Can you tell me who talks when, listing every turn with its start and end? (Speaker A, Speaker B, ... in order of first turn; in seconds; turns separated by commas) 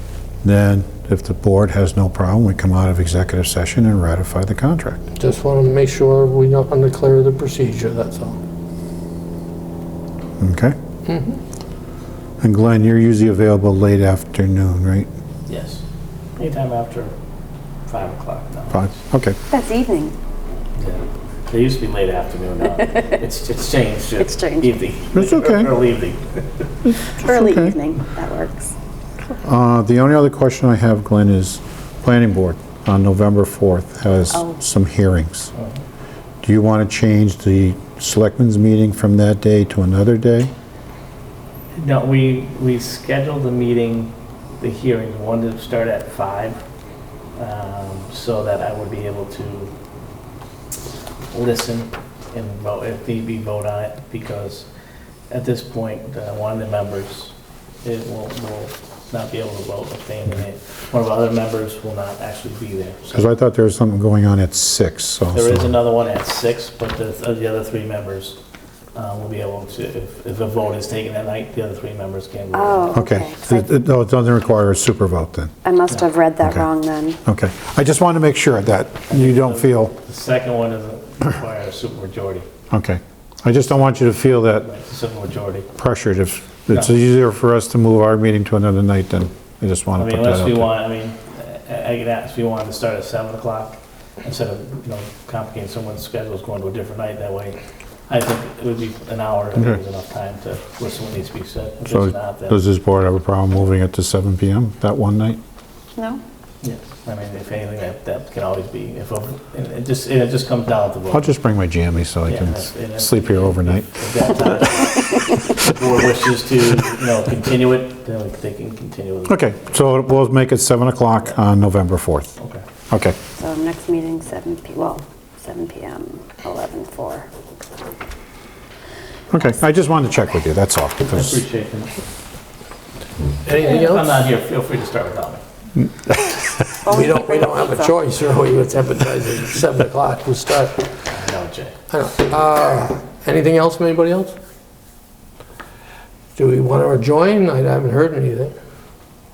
Speaker A: 0.4-5.0, Speaker B: 5.2-8.4, Speaker A: 10.4-10.8, Speaker B: 11.1-11.4, Speaker A: 12.4-15.1, Speaker C: 15.5-15.8, Speaker C: 16.4-17.1, Speaker C: 17.9-18.9, Speaker A: 18.7-19.4, Speaker D: 19.5-20.1, Speaker C: 20.8-26.6, Speaker D: 22.8-23.2, Speaker D: 24.2-24.8, Speaker A: 25.1-25.8, Speaker D: 27.2-28.7, Speaker A: 27.2-27.8, Speaker A: 29.4-35.5, Speaker A: 36.4-40.5, Speaker C: 41.8-46.6, Speaker C: 47.4-49.7, Speaker C: 51.3-54.7, Speaker C: 55.3-63.3, Speaker A: 63.1-65.8, Speaker C: 65.3-68.4, Speaker C: 68.9-73.0, Speaker D: 72.5-73.7, Speaker A: 72.9-75.5, Speaker D: 75.6-77.2, Speaker A: 76.4-76.7, Speaker A: 77.2-80.0, Speaker C: 79.1-82.5, Speaker A: 82.7-84.7, Speaker C: 84.6-85.7, Speaker A: 85.8-90.7, Speaker C: 90.0-102.6, Speaker A: 101.9-105.4, Speaker D: 106.0-106.2, Speaker C: 106.6-111.3, Speaker A: 111.1-114.3, Speaker C: 112.3-119.5, Speaker A: 119.3-122.3, Speaker C: 122.4-122.7, Speaker A: 122.9-123.2, Speaker D: 123.4-127.3, Speaker A: 129.3-131.4, Speaker C: 131.1-131.9, Speaker B: 133.4-134.2, Speaker C: 133.6-135.4, Speaker D: 136.8-137.9, Speaker B: 136.8-140.9, Speaker C: 141.1-141.8, Speaker B: 141.9-144.3, Speaker B: 146.4-148.5